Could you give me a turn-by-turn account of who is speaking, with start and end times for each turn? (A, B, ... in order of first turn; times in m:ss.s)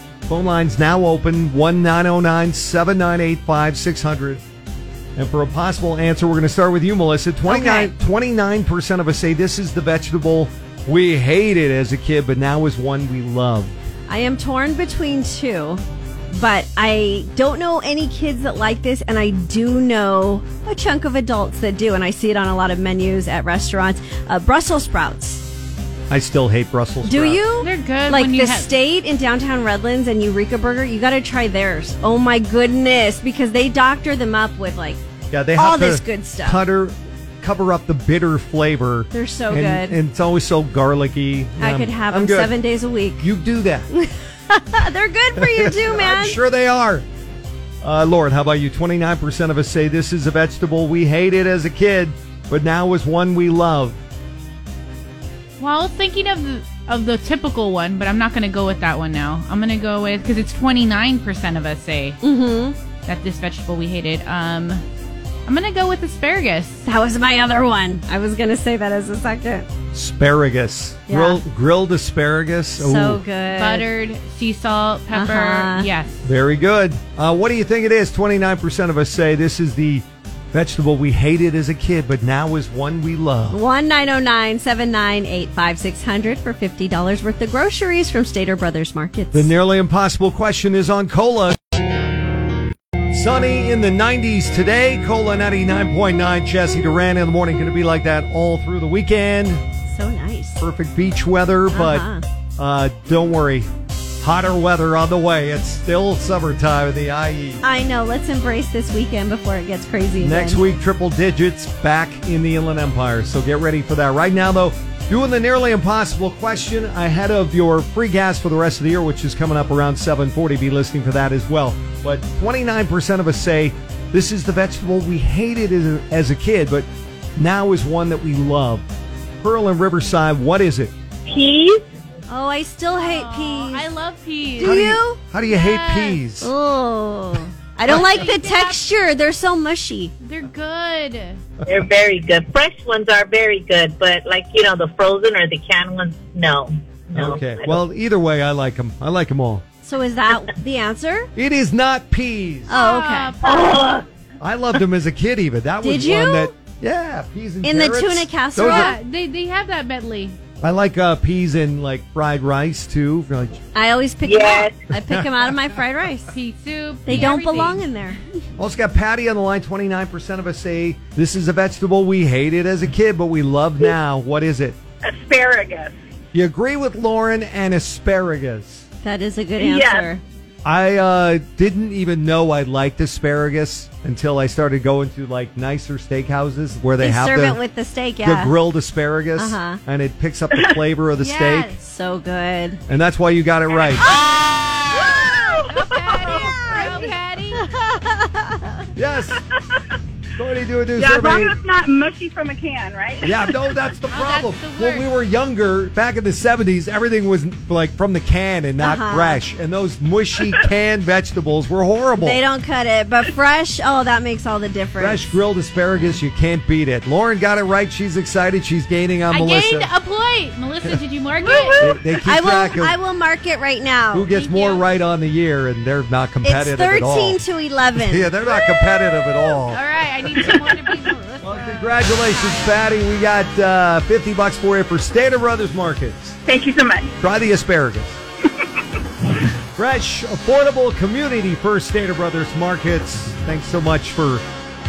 0:00.3-0:04.4 A
0:05.2-0:13.7 A
0:07.4-0:07.9 B
0:14.1-0:15.8 B
0:16.3-0:25.5 B
0:26.1-0:27.4 A
0:27.0-0:35.0 B
0:27.6-0:28.7 C
0:35.3-0:42.5 A
0:35.5-0:36.6 B
0:39.1-0:40.0 B
0:41.6-0:43.3 B
0:43.2-0:43.9 A
0:43.9-0:46.4 B
0:45.4-0:47.0 A
0:47.8-0:54.0 A
0:55.6-1:02.2 C
1:02.2-1:02.8 B
1:03.0-1:04.8 C
1:05.4-1:06.8 C
1:06.8-1:09.7 B
1:09.9-1:13.2 A
1:11.1-1:11.4 B
1:12.8-1:13.9 B
1:13.5-1:16.2 C
1:15.1-1:15.9 B
1:16.2-1:23.6 A
1:23.5-1:29.5 B
1:29.3-1:31.6 A
1:33.1-1:39.6 A
1:39.9-1:40.6 B
1:40.6-1:43.7 A
1:41.7-1:42.2 B
1:44.2-1:47.6 A
1:47.6-1:50.6 B
1:50.2-2:08.9 A
2:09.4-2:10.9 A
2:11.3-2:11.8 D
2:12.3-2:13.9 B
2:13.0-2:14.8 C
2:14.6-2:15.2 B
2:14.6-2:16.5 A
2:15.4-2:16.2 C
2:16.4-2:20.1 B
2:17.8-2:18.8 C
2:20.2-2:21.4 C
2:21.6-2:27.8 D
2:27.1-2:29.6 A
2:29.8-2:31.3 B
2:31.4-2:32.7 A
2:32.7-2:33.4 B
2:32.7-2:33.9 C
2:33.4-2:34.0 D
2:34.4-2:38.9 A
2:35.8-2:36.5 B
2:37.6-2:38.9 B
2:38.6-2:40.4 C
2:40.6-2:43.6 A
2:43.7-2:46.3 B
2:44.2-2:44.8 D
2:46.3-2:47.8 C
2:47.0-2:48.2 B
2:48.6-2:54.8 A
2:55.0-2:56.0 E
2:56.3-2:58.8 A
2:59.0-3:00.2 B
2:59.6-3:00.1 E
3:00.6-3:07.6 A
3:07.0-3:08.6 B
3:08.2-3:11.7 A
3:09.4-3:09.8 B
3:11.2-3:11.8 C
3:11.8-3:12.8 B
3:12.9-3:14.0 A
3:14.0-3:17.7 C
3:14.0-3:18.9 B
3:19.0-3:19.4 A
3:20.4-3:21.5 A
3:21.0-3:23.7 E
3:23.2-3:32.4 A
3:24.1-3:25.1 C
3:28.8-3:29.4 B
3:32.2-3:35.3 B
3:35.0-3:39.9 A
3:39.3-3:41.9 C
3:41.8-3:43.0 A
3:42.2-3:44.3 B
3:44.1-3:47.4 A
3:44.3-3:44.8 C
3:46.4-3:48.7 B
3:47.9-3:49.8 A
3:49.5-3:51.8 C
3:51.4-3:56.4 A
3:51.6-3:52.7 B
3:56.4-3:57.1 E
3:57.2-3:58.2 A
3:59.8-4:04.4 A